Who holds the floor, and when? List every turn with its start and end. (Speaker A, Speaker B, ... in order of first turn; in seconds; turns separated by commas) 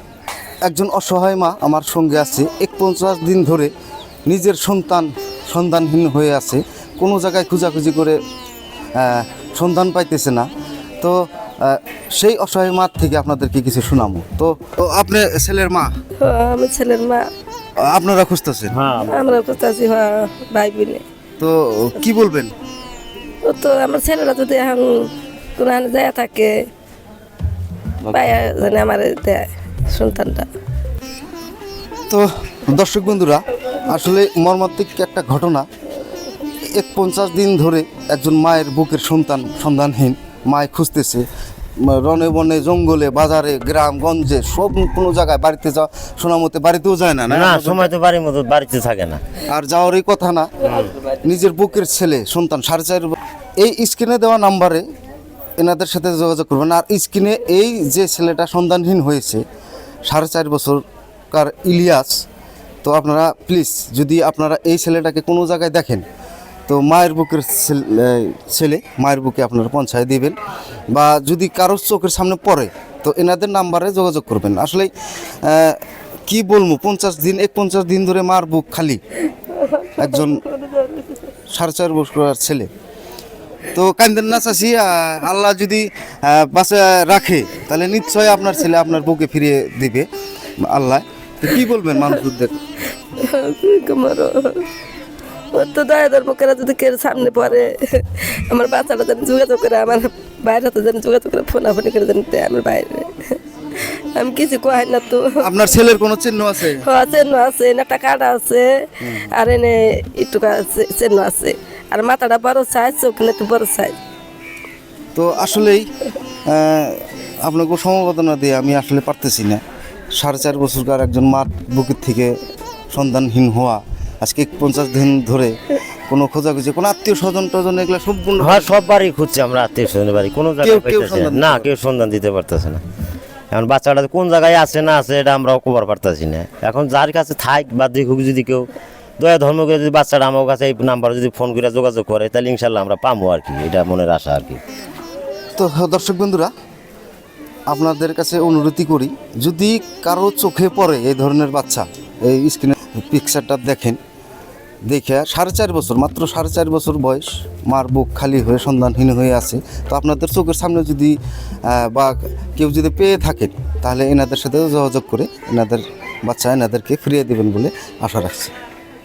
Speaker A: 0.6-3.7, Speaker A: 4.3-8.2, Speaker A: 8.9-10.5, Speaker A: 11.0-15.9, Speaker B: 16.2-17.3, Speaker A: 17.8-18.7, Speaker C: 18.7-19.4, Speaker B: 19.1-21.0, Speaker A: 21.4-22.5, Speaker B: 23.4-26.6, Speaker B: 28.1-30.5, Speaker A: 32.1-35.6, Speaker A: 36.7-41.3, Speaker A: 41.8-47.9, Speaker C: 47.3-49.2, Speaker A: 49.5-54.8, Speaker A: 55.6-59.4, Speaker A: 60.0-62.2, Speaker A: 62.8-66.0, Speaker A: 66.7-70.4, Speaker A: 70.9-74.9, Speaker A: 75.4-79.0, Speaker B: 79.6-81.0, Speaker A: 80.0-80.4, Speaker A: 81.5-82.7, Speaker A: 83.7-90.1, Speaker A: 90.6-92.6, Speaker B: 93.2-94.7, Speaker B: 95.5-105.4, Speaker A: 105.4-106.8, Speaker B: 106.7-114.0, Speaker A: 109.0-109.3, Speaker A: 115.1-115.9, Speaker A: 116.5-119.6, Speaker A: 120.2-122.4, Speaker A: 122.9-128.7, Speaker C: 128.4-132.8, Speaker A: 130.6-131.7, Speaker C: 133.5-138.7, Speaker C: 139.2-144.6, Speaker A: 145.6-146.5, Speaker A: 147.7-154.0, Speaker A: 154.9-168.5